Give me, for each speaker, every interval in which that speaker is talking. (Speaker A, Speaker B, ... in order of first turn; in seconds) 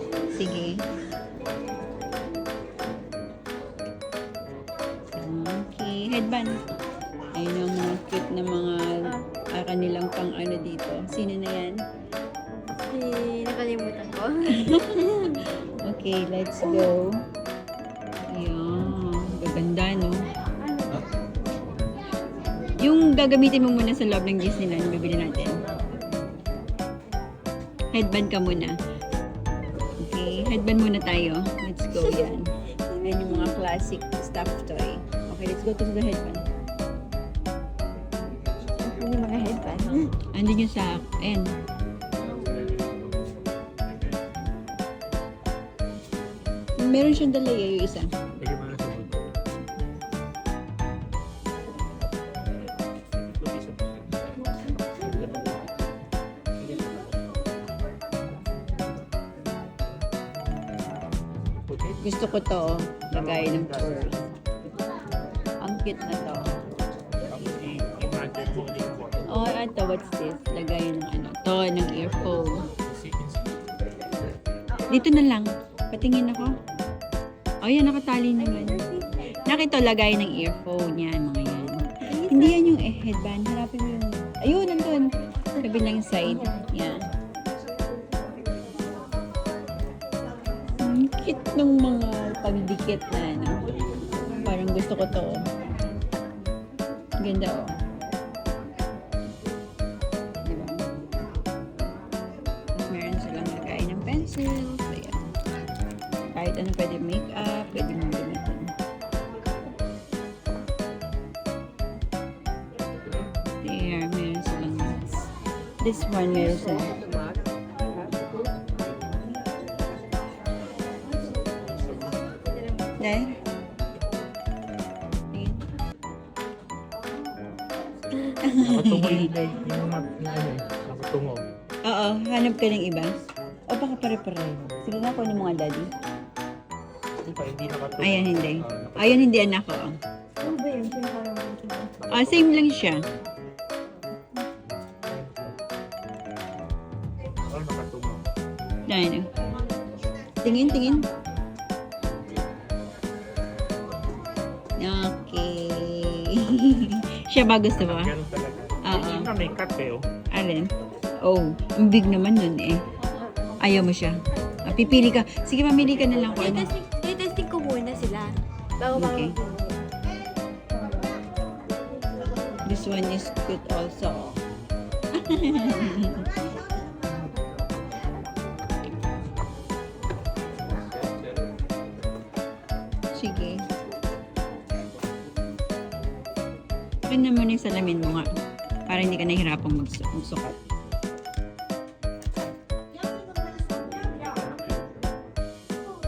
Speaker A: 0.3-0.8, 5.2-6.5, 7.3-11.8, 14.5-17.2, 18.3-20.2, 22.8-25.6, 27.9-28.8, 30.0-36.4, 40.2-41.5, 46.8-48.1, 62.0-64.2, 65.6-66.6, 69.3-72.6, 74.9-76.6, 77.6-78.8, 79.4-87.0, 90.8-93.7, 94.3-95.4, 97.2-97.7, 100.4-100.8, 102.7-105.3, 106.3-108.7, 113.6-115.3, 115.8-117.0, 123.0-123.4, 125.3-125.6, 128.4-129.3, 131.8-133.1, 133.7-135.9, 138.0-140.0, 142.1-143.0, 148.9-149.3, 150.4-151.1, 154.8-158.1, 158.8-159.3, 160.3-160.7, 161.2-162.8, 163.6-166.7, 168.9-169.4, 172.6-174.4, 175.1-176.3, 183.1-183.6, 187.0-188.3, 188.9-190.6
Speaker B: 12.9-15.4, 16.6-16.9, 31.9-33.6, 38.8-40.1, 78.4-79.3, 81.8-82.7, 86.2-86.7, 116.3-117.4, 122.3-123.2, 140.4-142.0, 166.2-169.8
Speaker C: 42.2-43.1, 43.9-44.1, 48.4-49.2, 53.2-54.0, 55.0-55.6, 61.7-62.0, 63.1-64.2, 67.2-69.4, 72.8-73.5, 121.7-122.1, 128.6-131.4, 137.2-139.5, 142.0-142.5, 145.0-145.6, 147.5-148.2, 157.8-160.1, 194.2-194.6